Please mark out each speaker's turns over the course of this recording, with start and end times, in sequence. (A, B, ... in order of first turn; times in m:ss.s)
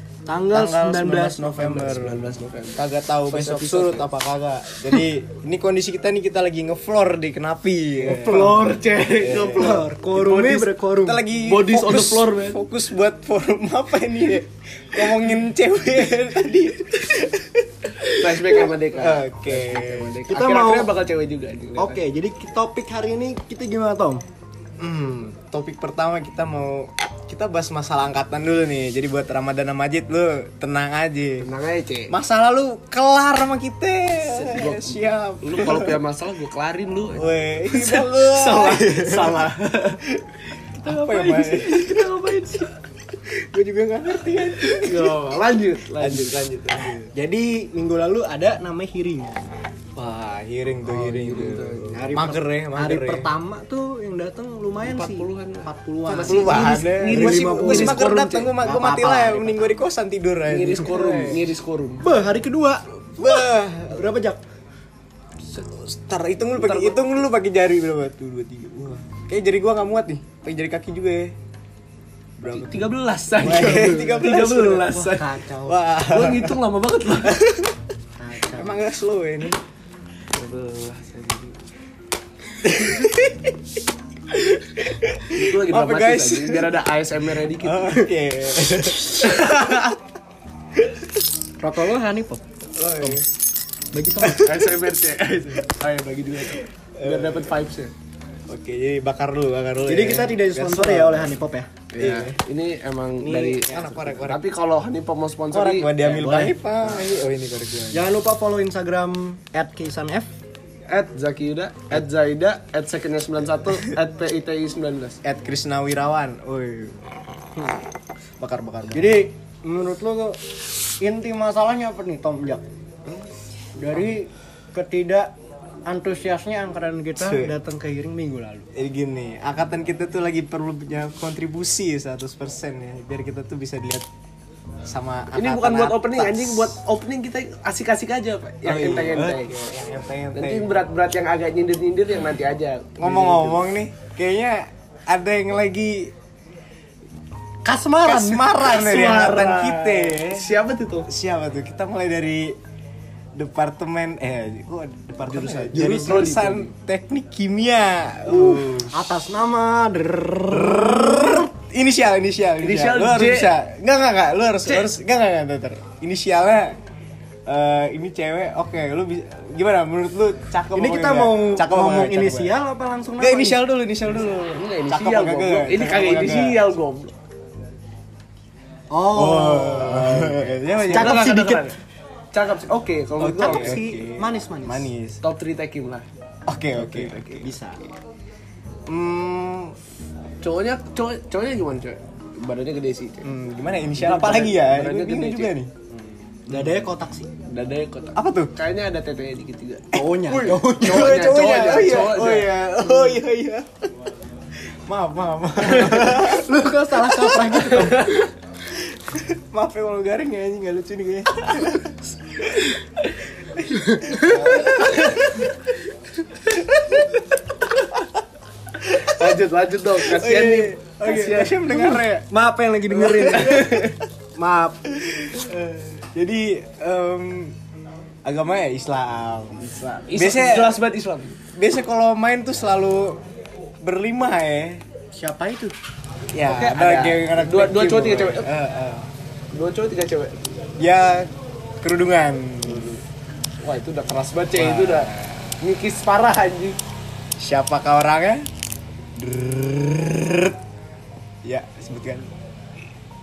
0:00.3-0:02.0 A
0:00.5-0:09.9 B
0:01.9-0:04.1 C
0:08.1-0:08.8 A
0:08.1-0:10.7 C
0:09.6-0:11.3 A
0:11.0-0:20.2 B
0:11.4-0:12.6 C
0:18.0-0:22.0 C
0:20.3-0:21.0 A
0:21.8-0:24.2 A
0:24.8-0:31.5 B
0:31.4-0:32.2 C
0:32.1-0:36.0 B
0:34.2-0:40.0 C
0:37.1-0:42.3 B
0:40.7-0:42.8 C
0:43.2-0:45.2 B
0:44.8-0:46.9 C
0:46.0-0:47.1 B
0:47.1-0:49.4 A
0:50.0-0:53.3 B
0:50.8-0:52.1 C
0:51.9-0:57.8 A
0:54.8-0:58.6 C
0:56.1-1:01.5 B
0:58.6-0:59.8 A
1:00.5-1:02.1 C
1:02.0-1:04.4 A
1:03.2-1:04.0 B
1:05.6-1:11.4 B
1:06.6-1:07.0 C
1:12.4-1:14.9 B
1:12.5-1:15.3 C
1:14.9-1:15.8 A
1:15.7-1:16.6 B
1:16.0-1:17.4 C
1:17.2-1:17.8 B
1:18.2-1:18.8 A
1:18.5-1:19.6 B
1:20.3-1:21.6 C
1:22.6-1:23.5 B
1:24.3-1:26.9 B
1:25.3-1:28.0 C
1:27.5-1:30.0 B
1:29.3-1:29.8 C
1:31.6-1:32.4 A
1:32.8-1:33.2 B
1:33.9-1:34.5 A
1:34.2-1:34.7 B
1:34.3-1:37.9 C
1:37.0-1:37.5 B
1:38.5-1:41.3 B
1:39.9-1:41.8 A
1:41.9-1:46.6 C
1:42.0-1:42.4 B
1:43.2-1:44.0 A
1:43.6-1:44.5 B
1:45.5-1:48.0 B
1:47.9-1:50.3 A
1:50.9-1:55.2 C
1:55.2-1:57.6 B
1:58.4-1:59.2 B
1:58.9-2:00.4 A
2:01.0-2:02.6 A
2:03.8-2:05.3 A
2:05.9-2:08.7 A
2:07.2-2:07.5 B
2:08.7-2:14.1 B
2:14.9-2:16.8 B
2:15.3-2:19.7 C
2:18.6-2:20.9 B
2:20.3-2:23.7 C
2:23.0-2:26.1 B
2:27.6-2:29.0 A
2:28.0-2:30.5 B
2:28.6-2:31.1 C
2:31.1-2:32.6 B
2:33.4-2:39.0 B
2:35.3-2:36.7 C
2:35.7-2:36.0 A
2:38.4-2:41.5 A
2:41.4-2:46.8 B
2:42.6-2:43.5 C
2:44.7-2:44.9 C
2:47.5-2:52.6 B
2:50.7-2:53.6 A
2:53.2-2:56.7 B
2:54.5-2:57.2 C
2:58.9-3:01.7 A
2:59.1-3:01.2 B
3:00.8-3:01.8 C
3:02.3-3:03.9 C
3:03.2-3:05.2 B
3:03.4-3:04.9 A
3:05.2-3:06.0 C
3:06.5-3:07.5 B
3:06.8-3:07.4 C
3:07.4-3:07.8 A
3:08.9-3:09.8 B
3:10.4-3:13.3 C
3:13.2-3:15.9 B
3:14.0-3:15.5 C
3:16.5-3:16.9 B
3:16.5-3:17.3 A
3:17.5-3:22.6 C
3:18.2-3:18.5 B
3:19.9-3:21.3 A
3:20.5-3:23.7 B
3:24.9-3:26.5 B
3:26.4-3:28.2 A
3:27.3-3:27.8 B
3:27.6-3:28.3 C
3:28.8-3:32.7 B
3:33.6-3:35.5 B
3:33.7-3:34.7 A
3:34.8-3:35.3 C
3:38.8-3:42.0 C
3:39.0-3:42.3 B
3:41.7-3:43.7 A
3:42.9-3:44.0 B
3:43.1-3:44.0 C
3:44.4-3:44.8 A
3:44.9-3:47.6 B
3:48.2-3:49.6 B
3:49.6-3:51.4 C
3:50.1-3:50.8 B
3:51.5-3:53.2 B
3:53.8-3:54.8 B
3:55.2-3:55.8 A
3:56.3-3:59.1 B
3:56.4-3:58.5 C
3:59.5-4:00.5 C
4:00.8-4:03.0 B
4:02.6-4:03.0 C
4:03.6-4:06.8 C
4:04.5-4:05.5 B
4:07.4-4:08.5 B
4:09.2-4:10.6 B
4:11.4-4:12.3 B